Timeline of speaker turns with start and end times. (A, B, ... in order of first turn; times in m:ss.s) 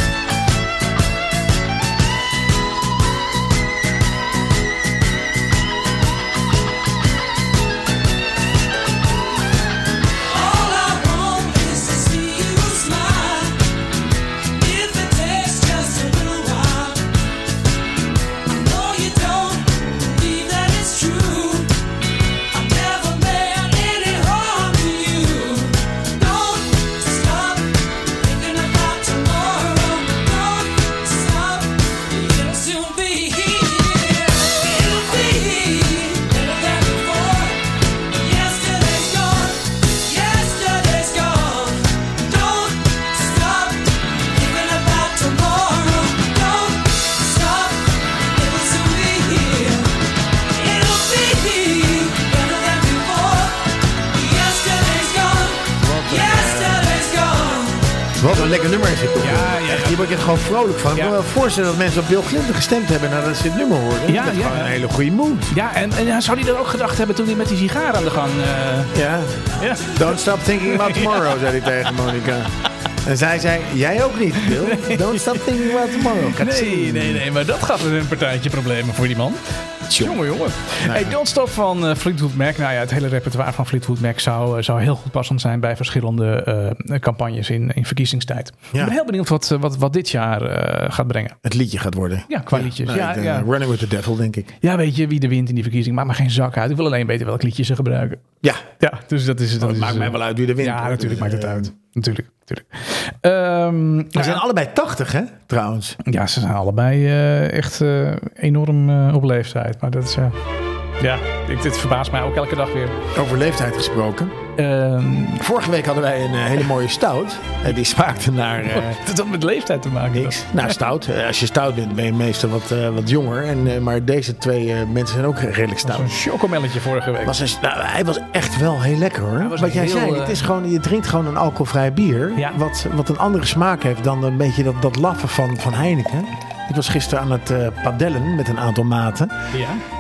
0:10.3-0:13.6 A
0:14.5-0:17.1 A
0:18.4-0:21.7 A
0:22.5-0:50.0 A
0:50.5-0:57.9 A
0:55.8-0:56.8 B
0:58.2-1:05.5 B
0:59.2-1:00.1 C
1:04.0-1:04.7 C
1:05.5-1:09.0 C
1:08.9-1:17.2 B
1:09.6-1:11.4 C
1:14.5-1:31.4 C
1:19.9-1:20.2 B
1:20.8-1:21.2 B
1:31.4-1:34.5 B
1:32.3-1:33.5 C
1:34.6-1:38.2 C
1:38.8-1:44.4 C
1:39.6-1:41.7 B
1:44.1-1:46.0 B
1:46.0-1:50.4 C
1:51.0-1:53.0 C
1:53.1-1:54.3 B
1:54.6-1:55.4 C
1:55.4-1:59.0 B
1:58.7-2:00.8 C
2:00.1-2:06.2 B
2:05.8-2:07.4 C
2:07.2-2:19.5 B
2:09.4-2:10.4 C
2:12.4-2:12.6 C
2:19.5-2:19.8 C